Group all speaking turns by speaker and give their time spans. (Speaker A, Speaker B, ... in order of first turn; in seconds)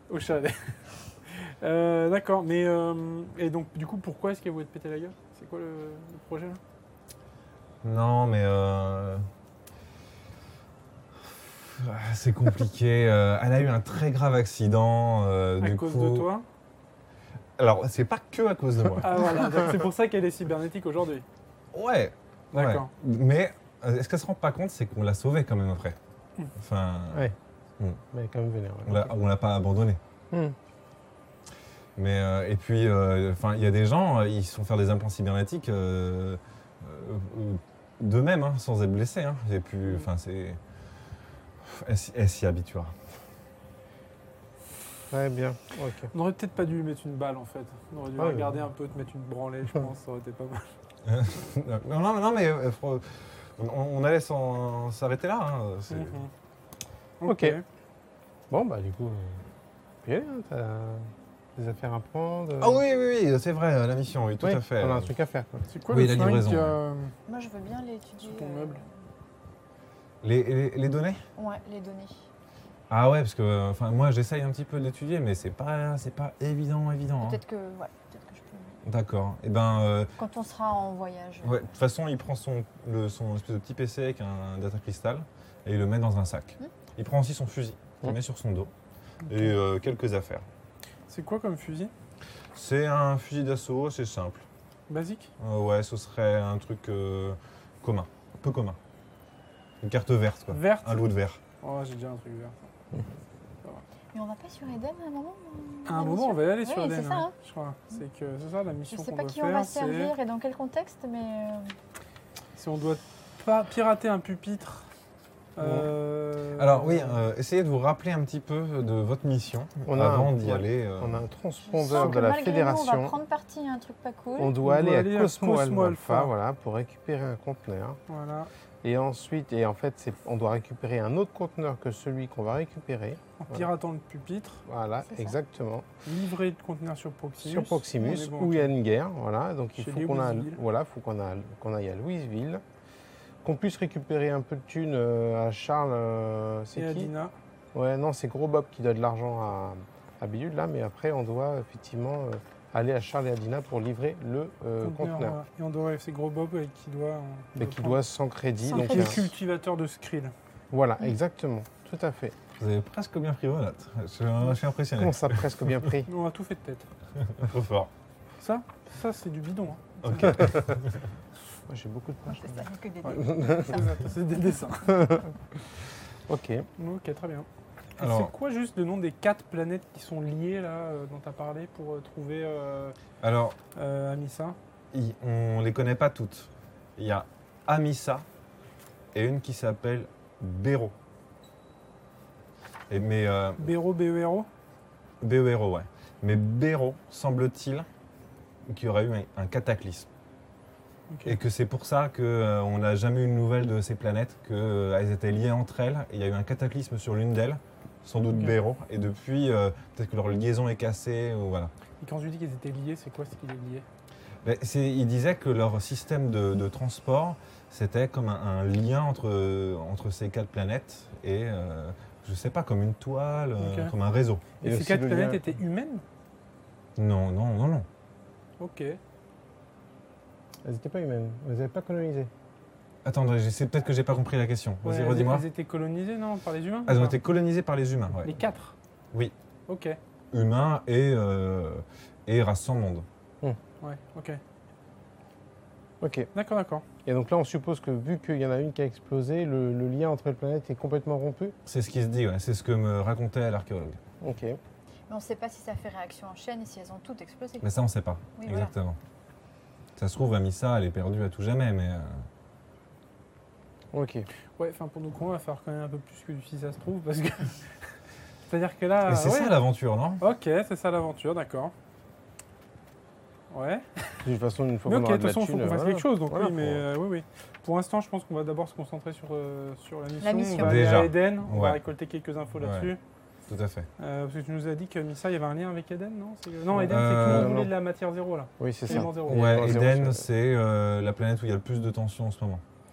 Speaker A: 0.1-6.6, 15.6-16.5, 18.9-21.2, 22.5-22.9, 46.1-50.7, 55.9-56.3, 57.2-57.6, 65.7-67.1, 68.2-68.8, 91.1-91.9, 94.9-95.3, 100.5-101.1, 101.6-102.6, 105.9-110.2, 112.6-114.9, 115.6-117.2, 121.9-122.2, 124.6-126.3, 128.1-128.5, 133.4-134.6, 136.1-138.7, 139.8-140.6, 146.8-147.3, 154.8-158.0, 158.7-160.3, 166.1-166.9, 168.4-170.5, 173.0-175.2, 176.8-177.5, 178.0-183.0, 183.8-184.6, 193.6-194.5, 201.1-201.4, 208.3-208.6, 212.0-213.8, 223.6-223.9, 224.6-226.0, 228.6-229.0, 234.8-237.2, 238.2-238.8, 239.7-240.0, 243.8-244.4, 246.3-246.8, 264.6-267.7, 268.5-269.6, 270.2-271.7, 273.5-274.0, 274.9-283.0, 284.0-289.6
Speaker B: 7.8-9.2, 11.4-16.3, 17.6-19.2, 21.7-26.0, 26.6-28.0, 28.9-30.0, 32.0-40.6, 41.6-42.9, 51.0-56.2, 62.6-65.1, 65.9-66.8, 70.2-71.2, 72.9-77.4, 78.8-80.1, 81.4-88.7, 89.3-90.5, 92.5-94.5, 95.4-98.8, 99.8-101.4, 116.5-121.2, 162.6-165.5, 167.4-167.9, 170.0-170.8, 178.0-178.3, 183.2-183.6, 184.9-188.3, 189.1-190.9, 192.9-193.7, 195.2-197.9, 198.7-200.1, 201.2-211.7, 214.4-224.4, 227.0-227.9, 233.1-235.5, 236.9-238.3, 240.3-243.1, 251.7-254.0, 257.6-259.0, 260.0-262.2, 269.1-270.2, 280.6-281.8, 282.6-282.9, 283.5-283.9, 286.8-287.6, 289.2-292.6
Speaker C: 28.1-29.1, 30.3-30.6, 45.1-46.1, 48.2-48.5, 57.2-57.6, 58.5-59.4, 60.0-62.8, 64.4-65.7, 119.9-123.2, 124.4-128.0, 128.8-133.7, 134.7-135.9, 137.4-142.6, 143.4-147.1, 147.7-155.4, 157.6-159.3, 160.7-162.3, 165.0-166.1, 171.7-173.8, 174.9-175.2, 176.3-176.7, 224.6-225.4, 230.6-232.3, 246.0-246.3, 247.1-251.6, 254.2-254.6, 263.9-264.3, 274.2-276.9, 286.8-287.7, 288.6-290.3
Speaker D: 67.3-68.9, 71.4-72.3, 77.2-78.8, 80.2-81.7, 104.1-107.3, 108.9-111.7, 121.7-124.6, 135.1-135.4, 158.7-159.3, 172.3-173.8, 255.1-257.7, 258.4-258.7, 280.2-281.0